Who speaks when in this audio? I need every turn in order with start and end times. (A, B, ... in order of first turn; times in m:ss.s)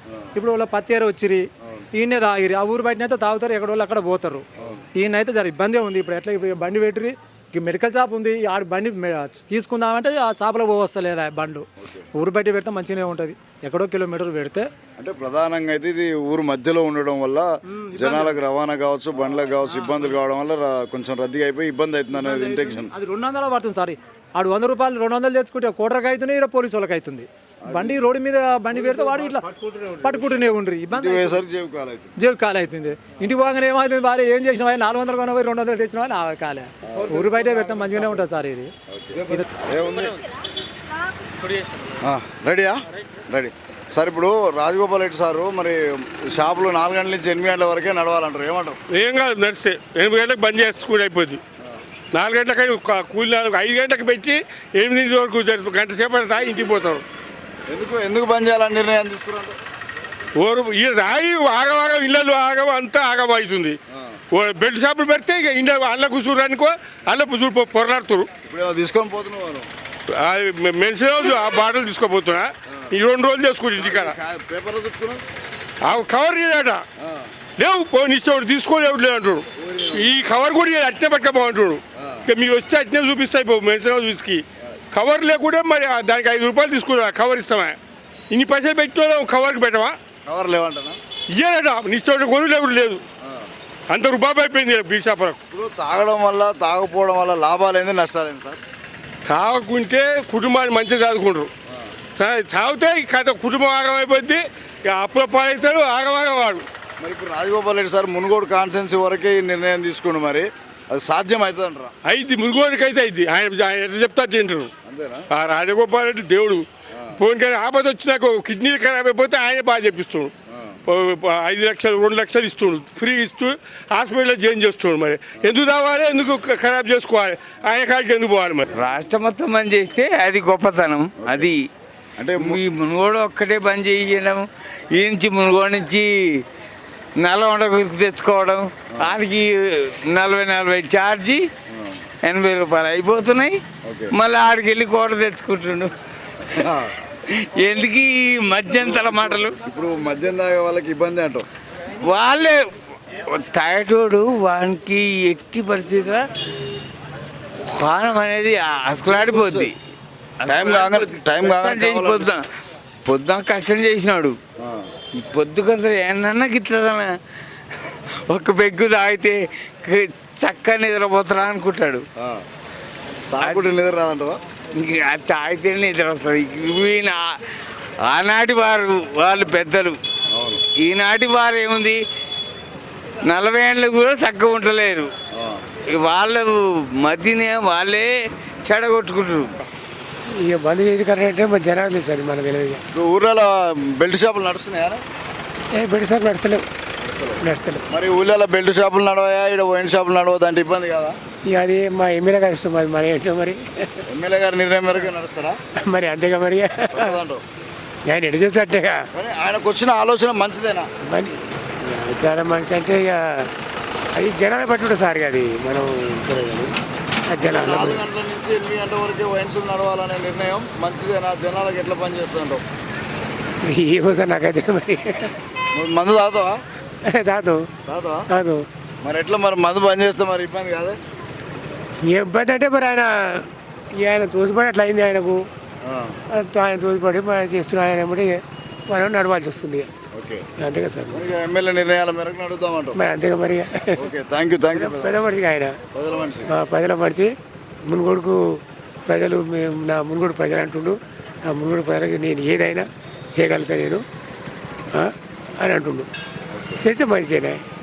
0:00.3-0:01.4 A
0:01.9-0:04.4 A
0:04.6-0:04.8 B
0:05.0-0:14.7 A
0:15.0-0:22.9 B
0:17.7-0:18.4 A
0:19.7-0:20.0 A
0:22.1-0:31.4 A
0:27.6-0:28.0 B
0:30.9-0:32.1 B
0:32.2-0:38.7 A
0:36.9-0:37.3 B
0:38.9-0:40.2 B
0:42.0-0:48.8 B
0:48.9-0:51.4 C
0:52.1-0:57.0 C
0:57.7-0:59.6 B
1:00.4-1:03.8 C
1:03.9-1:04.2 B
1:04.3-1:08.3 C
1:08.4-1:09.7 B
1:10.1-1:14.1 C
1:13.8-1:15.2 B
1:15.8-1:16.8 C
1:17.0-1:17.3 B
1:17.6-1:27.8 C
1:19.6-1:20.1 B
1:22.0-1:22.2 B
1:28.3-1:30.0 C
1:30.2-1:31.0 B
1:31.3-1:33.0 C
1:33.2-1:33.5 B
1:33.9-1:35.4 C
1:35.5-1:38.6 B
1:39.2-1:41.5 C
1:42.2-1:46.6 C
1:47.0-1:51.9 B
1:52.0-1:54.7 C
1:54.8-1:55.3 B
1:55.3-1:56.6 C
1:56.9-1:57.2 B
1:57.2-2:00.3 C
2:00.5-2:00.8 B
2:00.9-2:08.6 C
2:08.8-2:11.6 D
2:11.2-2:11.5 B
2:12.2-2:12.6 B
2:12.4-2:16.1 D
2:17.2-2:21.4 D
2:21.7-2:22.1 B
2:22.2-2:23.6 D
2:23.8-2:24.1 B
2:24.1-2:25.9 D
2:26.6-2:26.9 B
2:27.4-2:29.6 D
2:29.6-2:31.5 B
2:32.0-2:32.6 D
2:33.3-2:36.2 D
2:37.7-2:39.8 D
2:39.0-2:39.7 B
2:40.4-2:42.4 D
2:40.4-2:42.3 B
2:43.0-2:44.4 D
2:44.6-2:44.9 B
2:45.1-2:47.1 D
2:48.3-2:52.0 D
2:52.2-2:52.4 B
2:53.3-2:54.4 B
2:53.4-2:53.7 D
2:54.7-2:57.3 D
2:58.0-3:00.0 D
3:00.3-3:00.6 B
3:00.8-3:02.0 D
3:03.2-3:05.1 D
3:05.3-3:05.6 B
3:05.9-3:08.1 D
3:08.6-3:09.5 D
3:10.4-3:12.8 E
3:12.9-3:15.0 B
3:15.8-3:16.6 E
3:17.0-3:21.2 B
3:17.4-3:17.8 E
3:21.5-3:23.8 E
3:24.1-3:25.6 B
3:25.8-3:27.1 E
3:26.9-3:27.4 B
3:28.1-3:29.0 E
3:29.1-3:30.9 B
3:31.1-3:33.4 E
3:34.1-3:36.7 E
3:37.3-3:38.0 E
3:37.5-3:42.6 B
3:43.6-3:45.3 E
3:45.7-3:46.6 B
3:47.1-3:47.6 E
3:47.8-3:48.2 B
3:48.3-3:48.6 E
3:49.0-3:51.0 B
3:52.0-3:53.4 E
3:54.0-3:55.4 E
3:55.8-3:56.2 B
3:56.3-3:59.9 E
4:00.1-4:00.5 B
4:00.6-4:01.2 E
4:01.1-4:03.0 B
4:03.0-4:04.0 E
4:04.0-4:05.2 B
4:04.7-4:05.8 E
4:05.9-4:06.5 B
4:06.5-4:07.3 E
4:07.8-4:08.4 E
4:09.1-4:14.0 E
4:14.9-4:16.1 E
4:16.5-4:16.8 B
4:16.8-4:17.6 E